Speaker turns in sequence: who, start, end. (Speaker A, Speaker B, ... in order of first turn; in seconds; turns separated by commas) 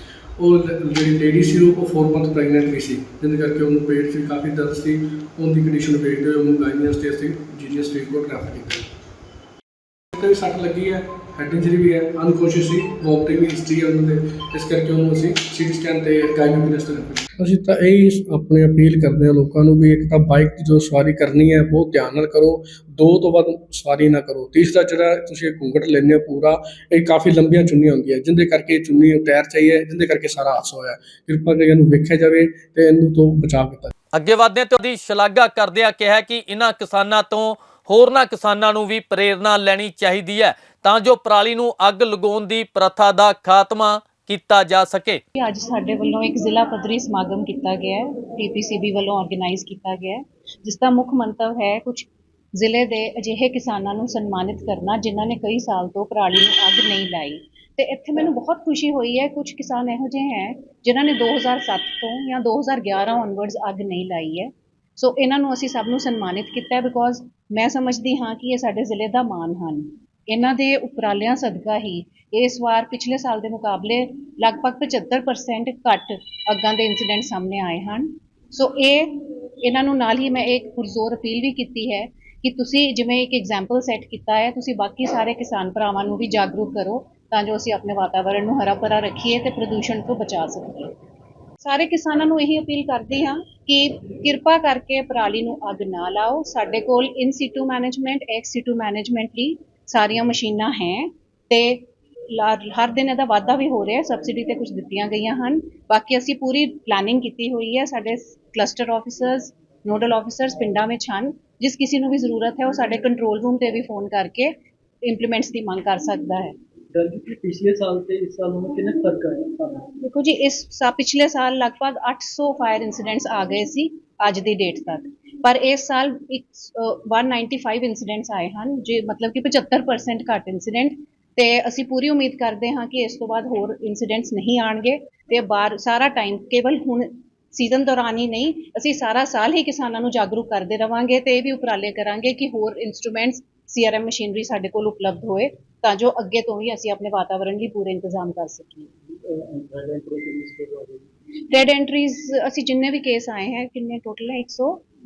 Speaker A: 0.4-8.9, Speaker A: 10.1-33.9, Speaker B: 34.1-45.2, Speaker C: 45.4-90.9, Speaker C: 91.6-116.5, Speaker D: 116.9-119.9, Speaker C: 120.0-148.9, Speaker D: 149.2-151.0, Speaker C: 151.5-154.8